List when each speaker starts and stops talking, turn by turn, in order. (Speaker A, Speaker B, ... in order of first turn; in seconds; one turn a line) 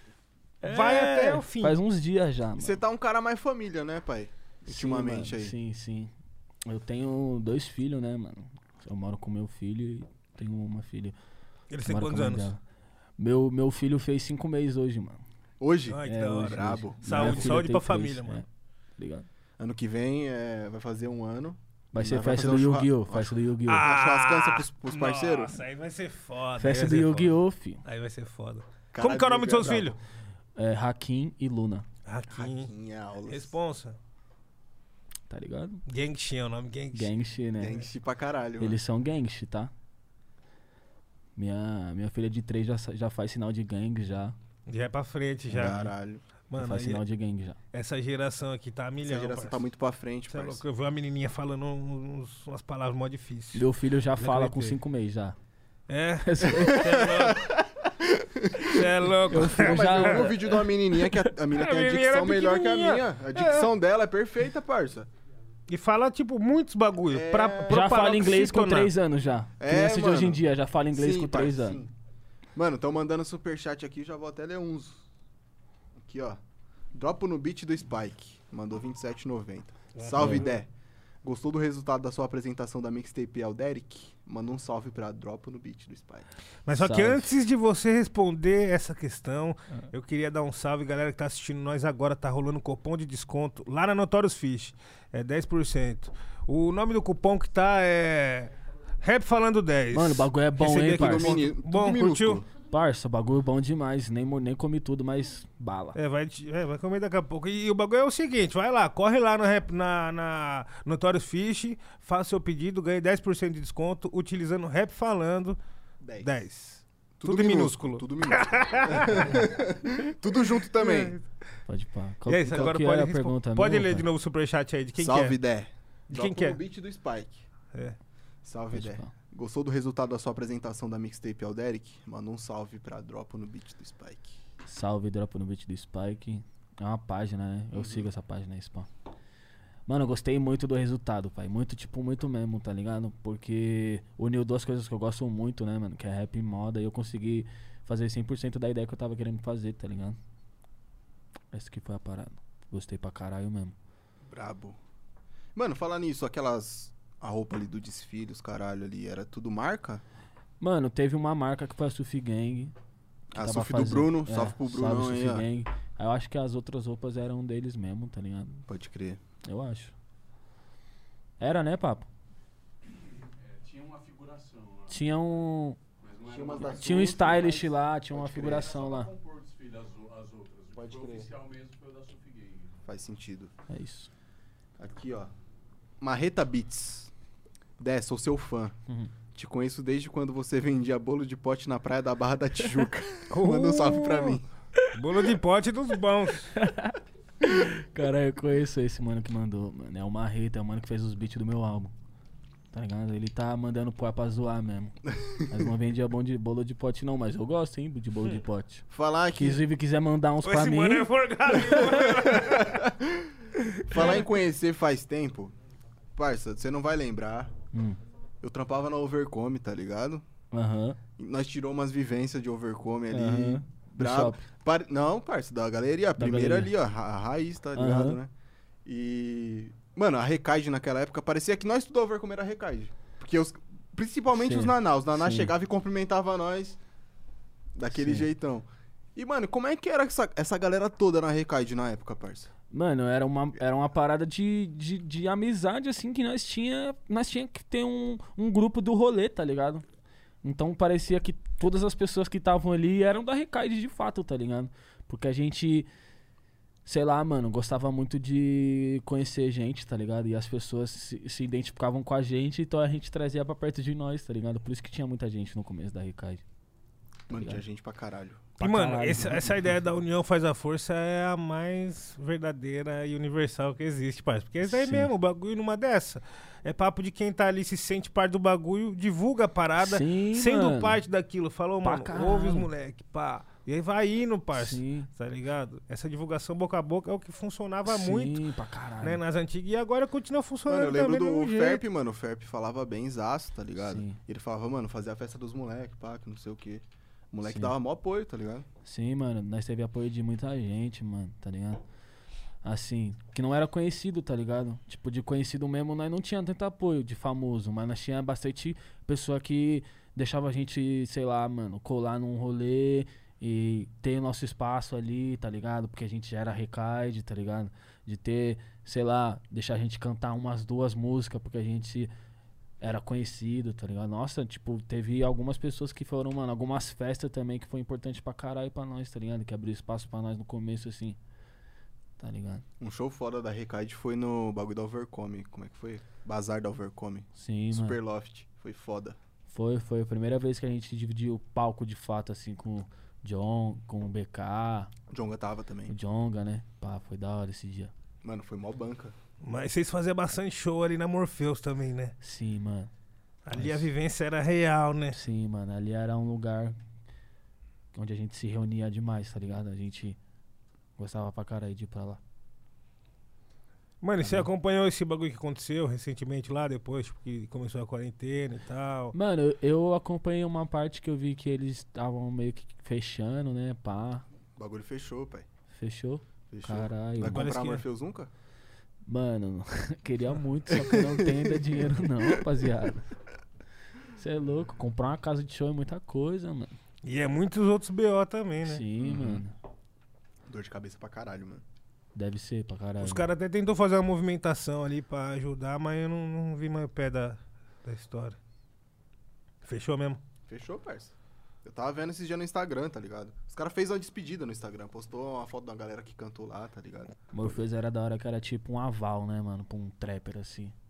Speaker A: 0.6-2.8
Speaker B: 0.6-1.8
Speaker C: 2.6-5.5
Speaker A: 4.7-6.1
Speaker A: 6.7-11.2
Speaker B: 11.7-12.5
Speaker A: 11.8-12.6
Speaker A: 13.2-15.2
Speaker C: 15.6-17.6
Speaker B: 15.9-18.4
Speaker A: 16.0-18.4
Speaker A: 19.0-19.3
Speaker C: 19.6-25.6
Speaker A: 21.9-23.9
Speaker B: 23.7-27.3
Speaker A: 26.6-27.8
Speaker B: 27.8-29.9
Speaker C: 28.9-29.9
Speaker A: 30.6-31.9
Speaker B: 32.0-32.7
Speaker C: 32.3-33.5
Speaker B: 33.3-34.0
Speaker A: 35.3-35.8
Speaker B: 35.9-37.1
Speaker A: 36.9-37.8
Speaker C: 37.6-38.8
Speaker A: 38.6-39.7
Speaker A: 41.4-44.4
Speaker B: 44.7-45.9
Speaker C: 45.5-46.2
Speaker B: 46.5-47.0
Speaker A: 46.6-47.6
Speaker B: 47.7-49.6
Speaker C: 49.0-50.6
Speaker B: 50.3-53.6
Speaker A: 53.5-55.4
Speaker B: 54.2-54.8
Speaker B: 55.9-57.5
Speaker A: 56.2-57.1
Speaker C: 56.6-65.1
Speaker B: 58.6-60.3
Speaker A: 59.3-61.3
Speaker B: 61.5-63.7
Speaker B: 65.7-68.9
Speaker C: 67.1-67.9
Speaker A: 67.7-71.8
Speaker C: 69.6-70.4
Speaker C: 70.9-71.9
Speaker C: 72.5-75.0
Speaker C: 76.0-76.4
Speaker C: 76.9-80.7
Speaker B: 80.0-80.5
Speaker A: 80.2-80.5
Speaker C: 81.2-86.3
Speaker B: 86.7-102.4
Speaker A: 86.7-87.3
Speaker A: 99.9-101.4
Speaker C: 100.9-102.5
Speaker A: 102.7-106.0
Speaker B: 105.9-115.6
Speaker C: 116.0-116.3
Speaker B: 116.2-119.3
Speaker C: 117.2-121.2
Speaker B: 120.8-121.2
Speaker A: 121.7-124.1
Speaker B: 122.2-125.4
Speaker C: 125.0-127.4
Speaker B: 126.1-126.6
Speaker C: 128.4-134.3
Speaker A: 128.7-129.1
Speaker A: 134.6-138.9
Speaker C: 137.7-138.1
Speaker A: 139.9-150.2
Speaker A: 151.5-153.7
Speaker C: 154.3-154.8
Speaker C: 155.5-160.0
Speaker A: 160.6-162.7
Speaker C: 163.3-165.4
Speaker A: 163.3-168.6
Speaker C: 168.7-169.2
Speaker A: 169.4-169.9
Speaker A: 171.4-172.1
Speaker D: 173.2-175.0
Speaker A: 174.9-175.8
Speaker D: 176.0-177.4
Speaker C: 176.2-178.8
Speaker A: 176.7-179.1
Speaker D: 178.4-182.8
Speaker C: 180.7-181.3
Speaker C: 182.8-183.5
Speaker A: 183.7-184.1
Speaker C: 184.8-185.3
Speaker C: 186.0-187.1
Speaker C: 187.8-188.7
Speaker C: 189.3-194.4
Speaker B: 193.3-194.4
Speaker B: 194.9-196.5
Speaker A: 196.5-201.9
Speaker A: 202.7-204.9
Speaker C: 205.2-205.6
Speaker A: 205.5-212.2
Speaker C: 208.9-209.6
Speaker B: 210.4-212.8
Speaker C: 211.8-213.3
Speaker C: 213.9-215.5
Speaker B: 213.9-214.2
Speaker C: 216.2-217.5
Speaker A: 217.7-218.0
Speaker C: 218.4-220.2
Speaker A: 220.5-221.0
Speaker C: 221.2-228.3
Speaker A: 223.1-224.4
Speaker A: 226.2-226.7
Speaker A: 227.7-228.2
Speaker C: 228.8-236.8
Speaker A: 234.3-235.5
Speaker C: 237.8-242.5
Speaker A: 237.9-238.3
Speaker A: 242.7-249.8
Speaker A: 250.4-255.9
Speaker A: 256.9-266.4
Speaker C: 267.3-268.5
Speaker A: 267.3-267.6
Speaker A: 268.6-269.7
Speaker B: 268.6-288.4
Speaker A: 274.6-275.1
Speaker A: 279.8-281.0
Speaker A: 281.8-282.7
Speaker A: 284.5-285.1
Speaker A: 287.9-289.2
Speaker B: 289.0-291.8
Speaker C: 290.7-298.6
Speaker A: 293.8-294.2
Speaker A: 297.4-297.7
Speaker A: 298.8-301.8
Speaker A: 302.6-322.1
Speaker A: 322.8-331.2
Speaker A: 332.2-332.6
Speaker C: 332.8-339.2
Speaker A: 337.3-338.0
Speaker A: 339.5-344.9
Speaker C: 345.1-345.9
Speaker A: 345.9-347.9
Speaker C: 348.2-349.1
Speaker B: 349.4-352.1
Speaker A: 352.2-352.9
Speaker B: 353.4-355.2
Speaker A: 353.5-353.9
Speaker A: 355.1-356.8
Speaker A: 357.9-360.2
Speaker A: 361.0-362.2
Speaker B: 364.0-369.1
Speaker A: 364.2-364.5
Speaker A: 369.1-374.2
Speaker C: 374.6-375.4
Speaker A: 375.7-377.5
Speaker C: 376.5-378.3
Speaker B: 377.2-377.8
Speaker A: 379.1-383.0
Speaker C: 380.7-381.6
Speaker A: 384.2-386.8
Speaker B: 387.0-388.8
Speaker A: 388.6-389.5
Speaker C: 389.0-389.4
Speaker C: 390.5-391.6
Speaker A: 392.1-393.3
Speaker B: 393.0-398.4
Speaker B: 399.6-400.2
Speaker C: 400.5-401.1
Speaker C: 401.6-407.6
Speaker A: 407.3-410.7